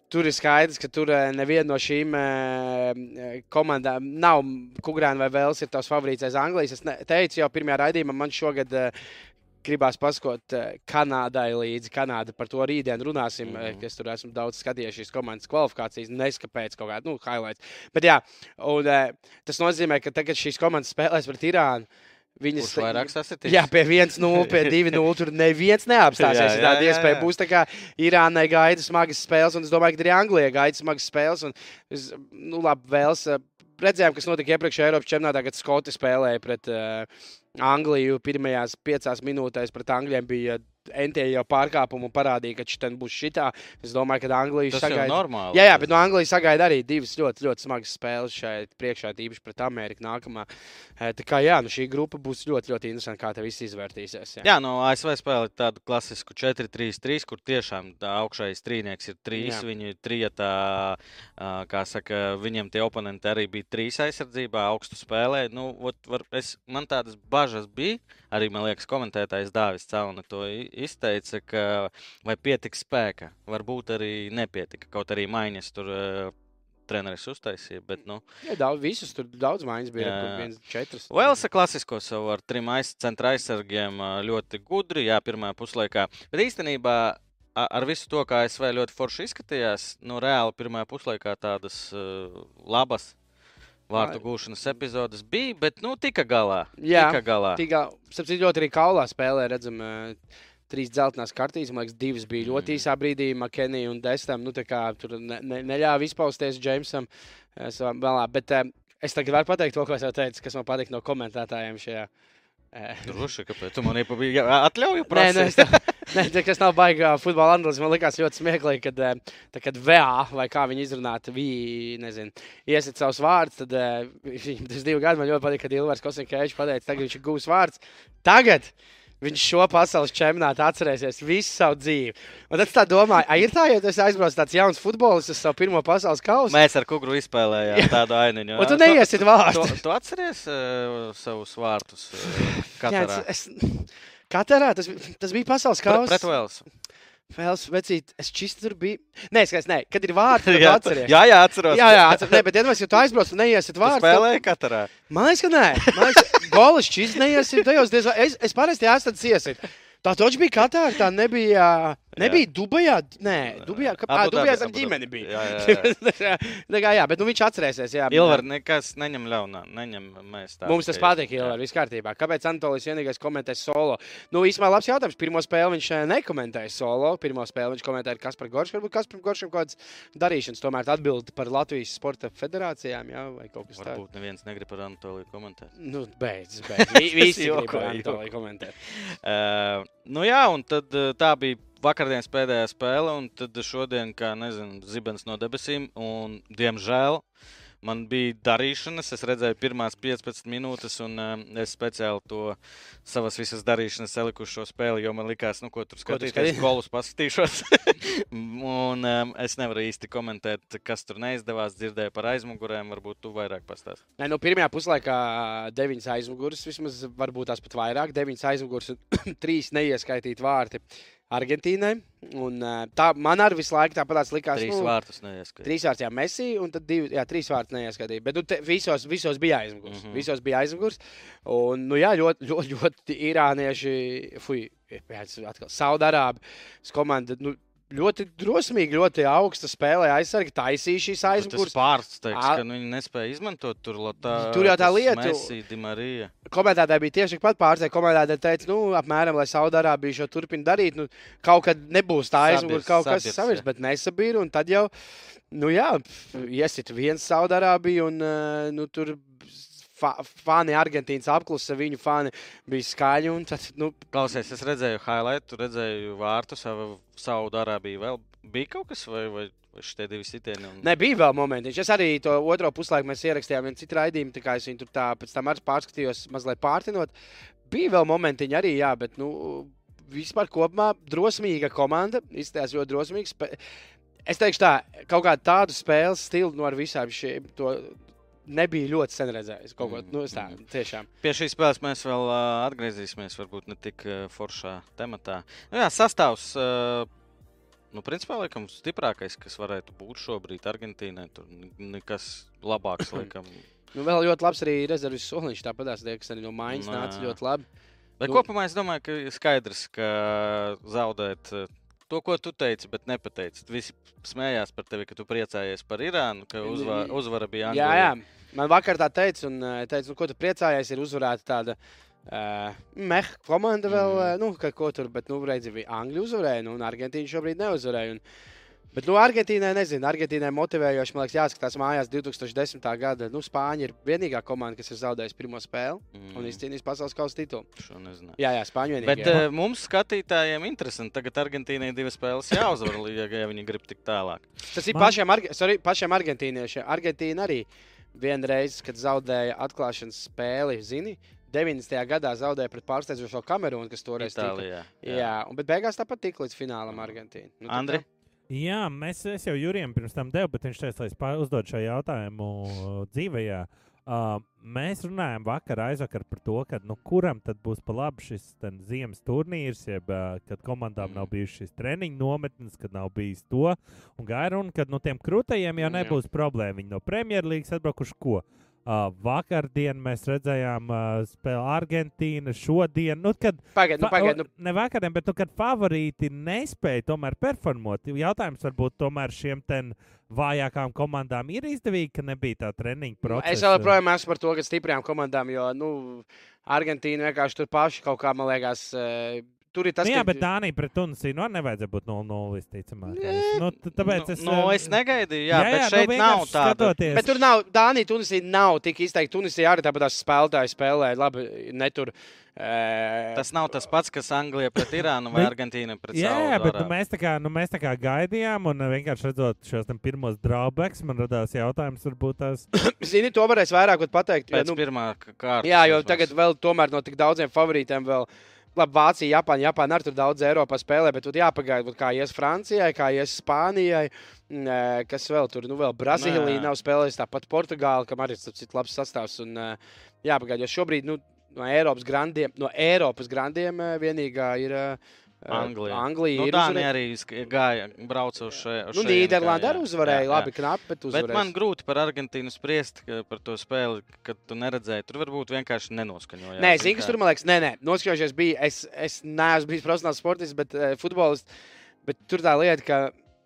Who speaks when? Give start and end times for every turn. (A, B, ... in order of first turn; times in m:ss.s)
0:00.1-0:08.9 A
0:09.6-0:54.4 A
0:13.4-0:13.8 B
0:22.6-0:23.7 B
0:24.3-0:25.0 B
0:26.2-0:27.3 B
0:44.7-0:45.9 B
0:54.4-1:16.3 B
0:59.3-0:59.6 A
1:16.9-1:18.2 B
1:18.4-1:21.4 A
1:20.0-1:20.5 B
1:21.1-1:33.2 B
1:33.9-1:37.6 B
1:36.8-1:40.2 A
1:40.7-1:52.1 A
1:42.4-1:42.9 B
1:52.7-1:53.2 A
1:53.0-1:55.9 B
1:55.1-2:16.6 A
2:16.5-2:23.2 B
2:17.7-2:18.0 A
2:18.5-2:19.8 A
2:22.3-2:26.3 A
2:25.8-2:26.6 B
2:27.3-2:31.2 A
2:30.3-2:32.4 B
2:31.7-2:34.3 A
2:33.8-2:34.9 B
2:35.1-2:48.4 A
2:35.9-2:36.4 B
2:42.2-2:42.4 B
2:43.5-2:45.9 B
2:48.1-2:51.6 B
2:50.6-3:04.0 A
3:03.7-3:05.7 B
3:05.8-3:08.7 A
3:06.8-3:08.2 B
3:08.8-3:17.2 B
3:17.8-3:34.0 B
3:26.0-3:26.7 A
3:34.2-3:44.9 A
3:44.5-3:45.7 B
3:45.6-4:01.8 A
3:49.8-3:50.2 B
4:01.3-4:06.3 B
4:02.3-4:02.6 A
4:04.3-4:05.5 A
4:06.5-4:14.9 A
4:12.4-4:13.6 B
4:15.5-4:24.0 A
4:24.1-4:30.9 B
4:30.8-4:37.1 A
4:37.7-4:43.6 A
4:44.3-4:51.1 A
4:49.8-4:50.6 B
4:51.2-4:57.1 B
4:57.9-5:03.6 B
5:03.9-5:07.6 A
5:06.7-5:07.4 B
5:08.2-5:18.1 B
5:16.6-5:28.2 A
5:23.9-5:24.3 B
5:28.9-5:37.7 A
5:36.1-5:36.6 B
5:37.8-5:38.4 B
5:38.4-5:39.4 A
5:39.0-5:44.5 B
5:44.7-5:58.0 A
5:54.2-5:55.3 B
5:56.9-5:57.2 B
5:57.7-5:58.0 B
5:58.5-6:34.0 C
6:11.0-6:11.3 B
6:15.8-6:16.2 B
6:15.9-6:16.1 A
6:23.7-6:24.5 A
6:33.2-6:40.4 A
6:40.0-6:45.0 C
6:43.0-6:47.3 B
6:45.5-6:47.3 C
6:47.1-6:53.7 A
6:53.4-6:56.9 B
6:56.1-7:02.6 C
7:02.7-7:04.8 A
7:04.5-7:06.3 B
7:05.6-7:26.9 A
7:16.1-7:16.7 B
7:25.5-7:30.5 B
7:28.9-7:31.5 A
7:31.1-7:37.2 B
7:36.6-7:41.5 A
7:42.0-7:43.1 A